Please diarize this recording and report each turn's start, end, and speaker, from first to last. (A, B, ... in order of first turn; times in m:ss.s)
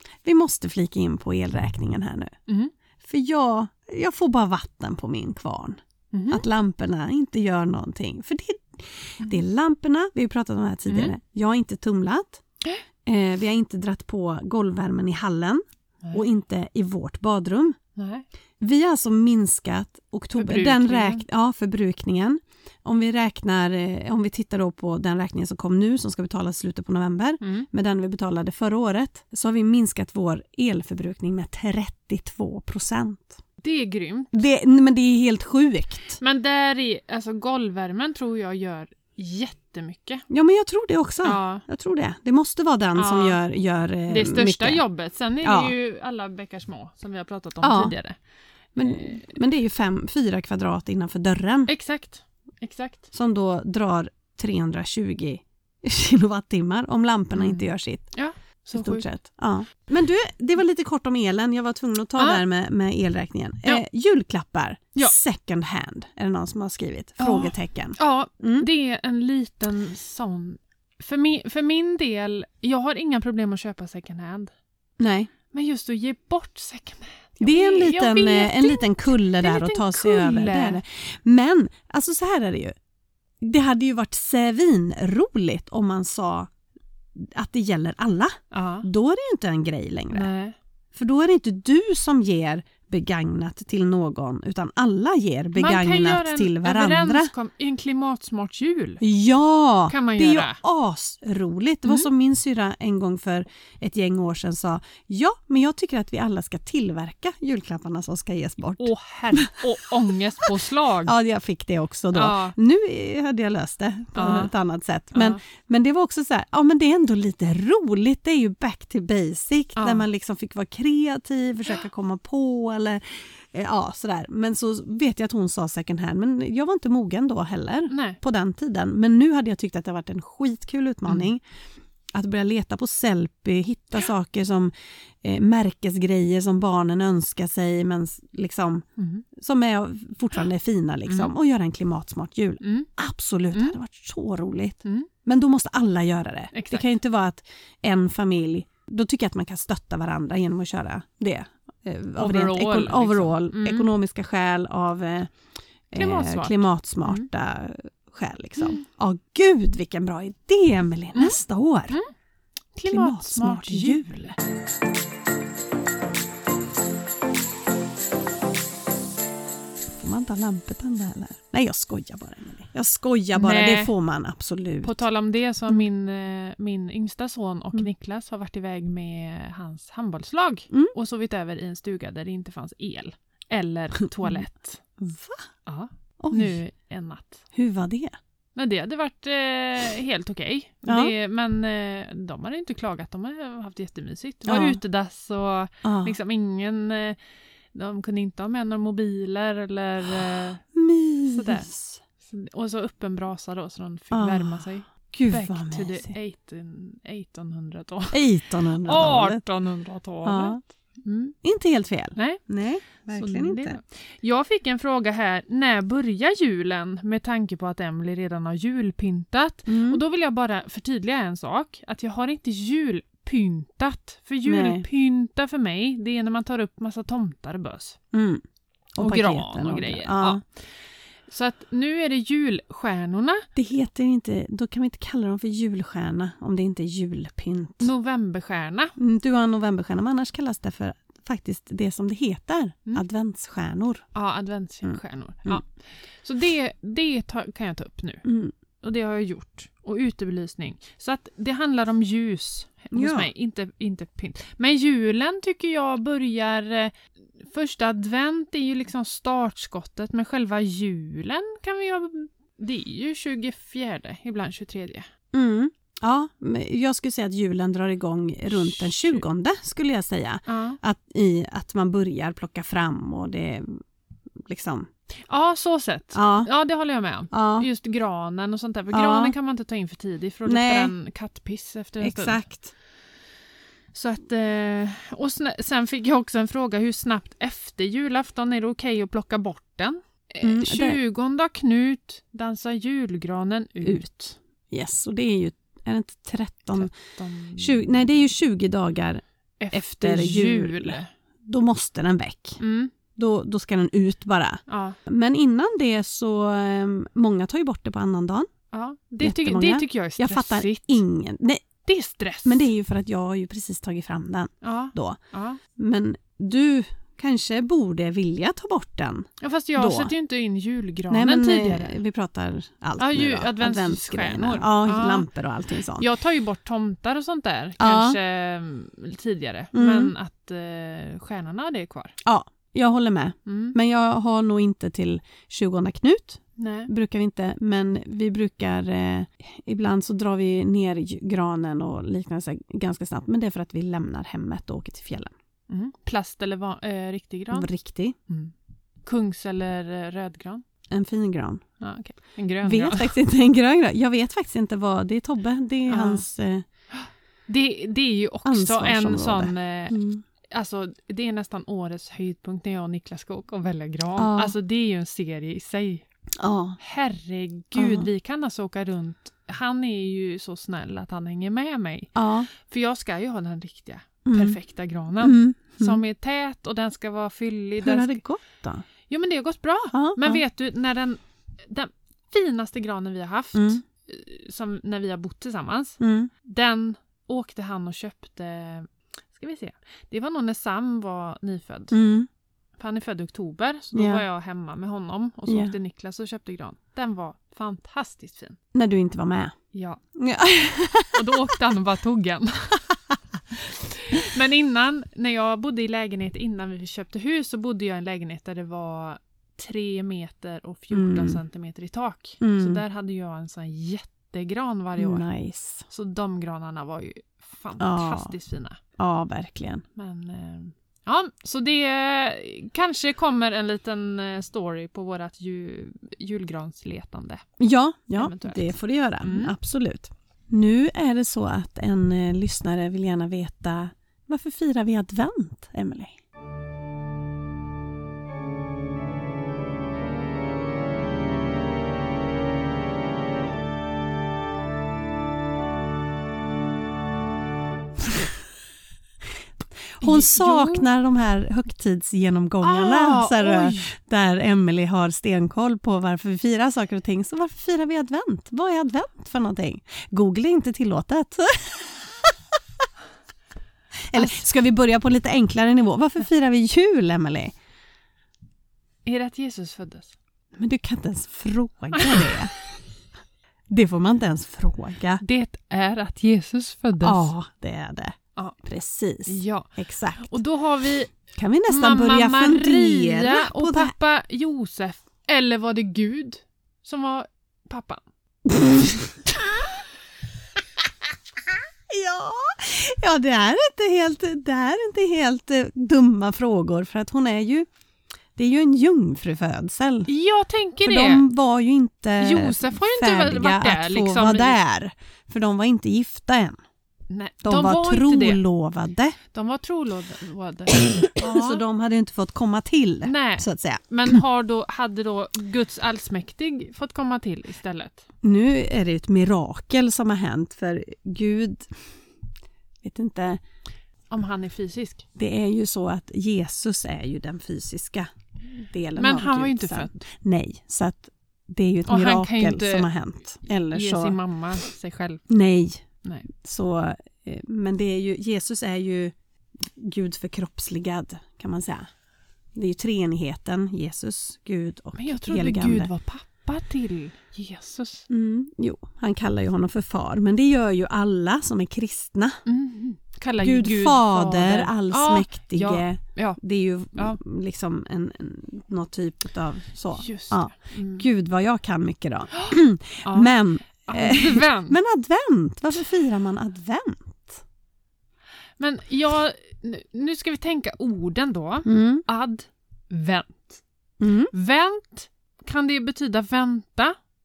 0:00.2-0:02.3 A
0:02.5-0:02.7 B
0:03.0-0:12.4 A
0:06.1-0:06.4 B
0:10.9-0:11.2 B
0:13.0-0:17.8 A
0:18.0-0:18.3 B
0:18.6-0:33.4 A
0:20.4-0:21.2 B
0:27.4-0:27.7 B
0:33.6-0:34.3 B
0:34.3-0:36.2 A
0:36.2-0:40.2 B
0:40.3-0:44.8 A
0:41.2-0:41.6 B
0:43.0-0:43.4 B
0:44.1-0:48.2 B
0:45.4-0:45.7 A
0:47.6-0:47.9 A
0:48.8-0:51.7 A
0:48.8-0:49.2 B
0:51.7-0:53.1 B
0:53.1-0:58.1 A
0:57.4-0:59.1 B
0:58.7-1:08.7 A
1:07.2-1:14.5 B
1:15.0-1:15.3 A
1:15.5-1:20.8 B
1:17.4-1:22.8 A
1:23.4-1:26.5 A
1:27.2-1:30.3 A
1:28.5-1:28.9 B
1:30.1-1:30.6 B
1:30.9-1:37.3 A
1:35.6-1:39.0 B
1:39.0-1:49.6 A
1:39.9-1:40.6 B
1:48.8-1:51.1 B
1:51.0-2:11.4 A
1:52.1-1:52.6 B
1:54.2-1:54.5 B
1:55.1-1:55.4 B
1:59.8-2:00.0 B
2:07.9-2:08.2 B
2:12.1-2:18.8 A
2:19.0-2:19.2 B
2:19.4-2:35.3 A
2:21.1-2:21.3 B
2:22.6-2:22.9 B
2:26.5-2:26.9 B
2:32.2-2:33.9 B
2:35.9-2:42.0 A
2:36.0-2:37.3 B
2:42.7-2:44.4 B
2:42.9-2:44.2 A
2:50.0-2:55.0 A
2:53.3-2:53.9 B
2:54.8-3:04.8 B
3:05.0-3:05.5 A
3:05.7-3:07.4 B
3:06.2-3:06.6 A
3:07.5-3:08.2 A
3:08.6-3:17.2 B
3:10.9-3:11.1 A
3:14.5-3:14.8 A
3:15.8-3:16.2 A
3:17.7-3:20.6 B
3:20.7-3:22.0 A
3:21.3-3:21.7 B
3:22.2-3:28.2 B
3:24.1-3:26.1 A
3:28.1-3:29.4 A
3:28.8-3:31.4 B
3:30.2-3:30.6 A
3:31.4-3:33.8 A
3:32.2-3:32.4 B
3:33.0-3:48.0 B
3:39.7-3:40.0 A
3:44.4-3:44.9 A
3:48.1-3:48.4 A
3:49.0-3:50.4 A
3:49.0-3:50.6 B
3:51.3-3:53.5 B
3:53.6-3:57.9 A
3:57.8-3:59.0 B
3:59.0-4:04.1 A
4:04.1-4:05.7 B
4:04.8-4:05.6 A
4:06.2-4:08.2 B
4:08.2-4:08.5 A
4:08.8-4:25.1 B
4:12.9-4:13.3 A
4:25.3-4:33.8 A
4:28.5-4:29.2 B
4:30.5-4:30.8 B
4:34.4-4:34.9 A
4:35.3-4:42.4 B
4:36.1-4:36.5 A
4:37.3-4:37.7 A
4:38.9-4:39.3 A
4:40.5-4:40.9 A
4:42.0-4:42.7 A
4:43.9-4:54.4 B
4:50.4-4:51.0 A
4:54.7-4:57.0 A
4:56.8-4:57.8 B
4:57.6-5:02.6 A
4:59.6-5:01.1 B
5:02.6-5:02.9 B
5:03.2-5:08.5 A
5:04.7-5:05.0 B
5:08.7-5:11.0 B
5:09.2-5:11.7 A
5:11.8-5:12.6 B
5:12.4-5:15.2 A
5:14.6-5:15.6 B
5:15.8-5:20.1 A
5:19.4-5:22.0 B
5:21.1-5:26.1 A
5:23.0-5:25.3 B
5:26.0-5:32.2 B
5:27.8-5:28.2 A
5:29.7-5:30.1 A
5:32.2-5:45.3 A
5:33.5-5:33.8 B
5:36.6-5:36.9 B
5:45.7-5:47.7 B
5:47.5-5:48.2 A
5:48.3-5:50.6 B
5:50.9-5:51.6 A
5:51.8-5:53.1 B
5:52.6-5:56.6 A
5:55.9-5:56.2 B
5:56.9-6:06.0 B
5:58.4-6:00.2 A
6:04.2-6:04.5 A
6:06.4-6:06.8 A
6:06.8-6:18.2 B
6:07.8-6:08.1 A
6:12.2-6:12.5 A
6:14.2-6:14.6 A
6:15.2-6:16.0 A
6:17.8-6:18.9 A
6:19.1-6:32.0 B
6:19.9-6:20.4 A
6:23.5-6:23.8 A
6:26.0-6:26.3 A
6:31.9-6:32.3 A
6:32.8-6:38.6 B
6:33.9-6:34.2 A
6:35.5-6:35.7 A
6:38.7-6:39.6 A
6:39.7-6:40.0 B
6:40.2-6:41.5 A
6:41.1-6:42.8 B
6:43.5-6:55.3 B
6:50.9-6:51.4 A
6:52.4-6:52.8 A
6:55.0-6:55.9 A
6:55.9-6:58.8 B
6:57.8-6:58.3 A
6:59.0-6:59.8 A
7:00.0-7:07.4 B
7:07.6-7:16.2 A
7:08.2-7:09.5 B
7:30.0-7:42.3 A
7:30.0-7:30.9 B
7:32.6-7:33.9 B
7:44.1-7:47.5 A
7:49.0-7:50.1 B
7:50.6-7:52.5 A
7:52.0-7:52.3 B
7:53.7-7:55.2 A
7:55.2-7:57.3 B
7:57.0-8:00.4 A
7:59.3-8:01.1 B
8:01.3-8:03.9 A
8:01.7-8:08.0 B
8:11.9-8:17.7 A
8:18.4-8:20.1 A
8:20.1-8:21.2 B
8:20.8-8:26.6 A
8:22.2-8:24.6 B
8:27.1-8:28.4 B
8:27.4-8:29.2 A
8:29.3-8:31.6 B
8:31.2-8:33.8 A
8:33.0-8:38.0 B
8:38.2-8:41.7 A
8:42.8-8:43.4 A
8:44.1-8:45.0 B
8:45.2-8:54.2 A
8:49.0-8:50.0 B
8:51.9-8:52.9 B
8:53.7-8:55.3 B
8:55.3-8:59.2 A
8:59.7-9:01.9 A
9:02.6-9:05.9 A
9:05.0-9:08.1 B
9:08.1-9:12.4 A
9:12.5-9:16.4 B
9:13.4-9:27.4 A
9:20.0-9:21.0 B
9:23.0-9:23.3 B
9:23.8-9:24.8 B
9:28.6-9:33.6 B
9:31.6-9:32.0 A
9:34.0-9:34.3 A
9:34.3-9:37.0 B